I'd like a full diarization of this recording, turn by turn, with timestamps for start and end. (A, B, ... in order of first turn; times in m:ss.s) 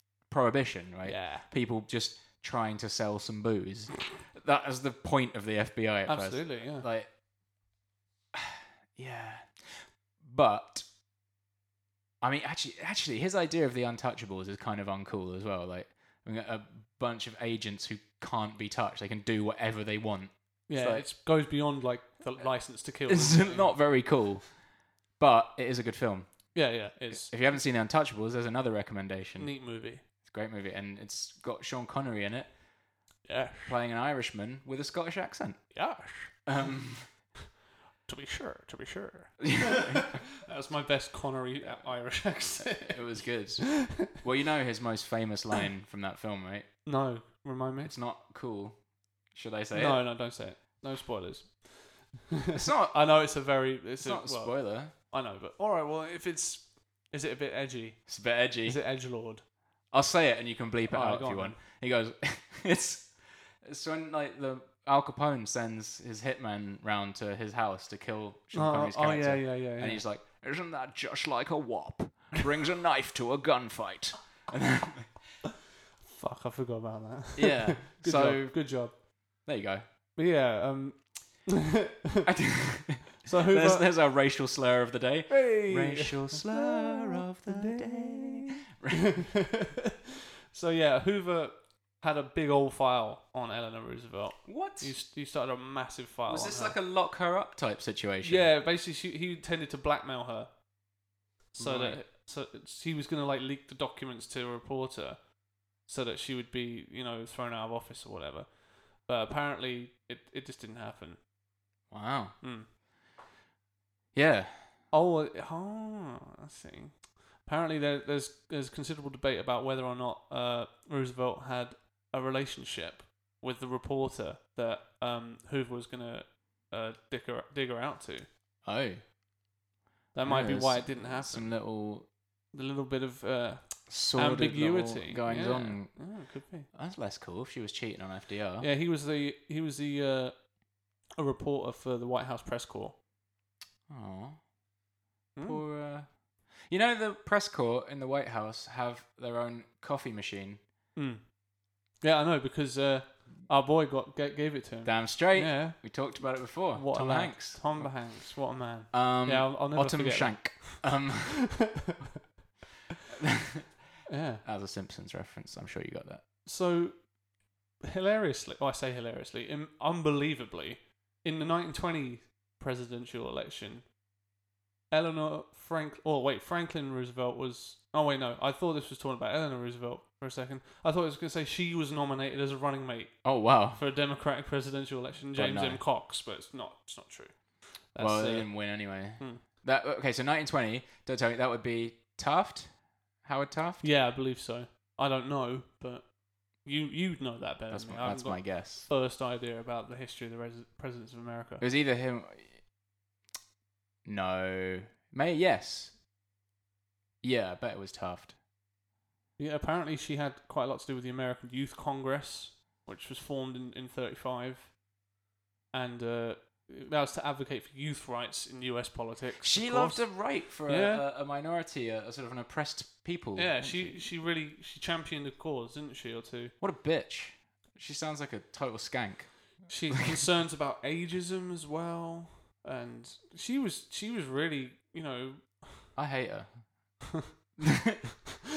0:00.2-0:07.1 A
0:01.0-0:01.5 B
0:06.1-0:06.9 B
0:08.3-0:10.9 A
0:12.2-0:21.1 A
0:20.7-0:23.8 B
0:23.1-0:24.6 A
0:25.2-0:29.5 A
0:26.5-0:27.3 B
0:29.4-0:30.0 B
0:30.2-0:32.5 A
0:33.3-0:33.8 B
0:33.7-0:35.8 A
0:35.7-0:36.6 B
0:36.4-0:37.1 A
0:38.1-0:43.0 B
0:39.4-0:40.2 A
0:41.8-0:46.7 A
0:46.8-0:47.9 B
0:47.8-0:48.8 A
0:49.3-0:50.0 A
0:49.7-0:59.4 B
0:52.5-0:53.0 A
0:54.0-0:54.9 A
0:58.1-0:58.8 A
0:59.9-1:15.2 A
1:00.9-1:01.6 B
1:08.5-1:10.0 B
1:16.0-1:19.0 B
1:17.4-1:18.7 A
1:19.4-1:19.8 A
1:20.2-1:22.3 B
1:22.2-1:29.3 A
1:23.2-1:23.9 B
1:25.3-1:30.0 B
1:30.5-1:36.8 B
1:34.5-1:35.0 A
1:36.3-1:38.5 A
1:38.2-1:40.5 B
1:41.5-1:45.3 B
1:41.6-1:42.0 A
1:45.8-1:51.2 B
1:51.9-1:52.4 A
1:52.4-1:52.7 B
1:54.1-1:54.7 A
1:54.9-2:08.3 B
2:08.6-2:09.0 A
2:10.1-2:11.5 B
2:10.2-2:12.1 A
2:12.5-2:16.7 B
2:13.9-2:16.2 A
2:16.7-2:18.7 A
2:18.6-2:20.5 B
2:21.2-2:23.0 B
2:23.9-2:24.4 A
2:25.4-2:25.6 B
2:25.4-2:30.6 A
2:31.0-2:31.4 B
2:32.0-2:41.1 B
2:34.8-2:38.1 A
2:38.7-2:41.7 A
2:43.2-2:43.7 A
2:44.1-2:44.4 B
2:44.4-2:46.2 A
2:46.4-2:47.1 B
2:47.8-2:53.9 B
2:54.9-3:09.4 B
3:03.2-3:03.8 A
3:05.4-3:05.8 A
3:08.0-3:13.8 A
3:13.8-3:21.6 B
3:17.7-3:18.9 A
3:21.6-3:22.7 A
3:24.0-3:26.0 A
3:27.2-3:28.4 A
3:29.4-3:34.8 B
3:35.7-3:41.0 B
3:39.4-3:44.1 A
3:43.4-3:46.5 B
3:46.6-3:50.2 A
3:49.7-3:55.9 B
3:56.0-3:56.6 A
3:57.6-3:58.0 A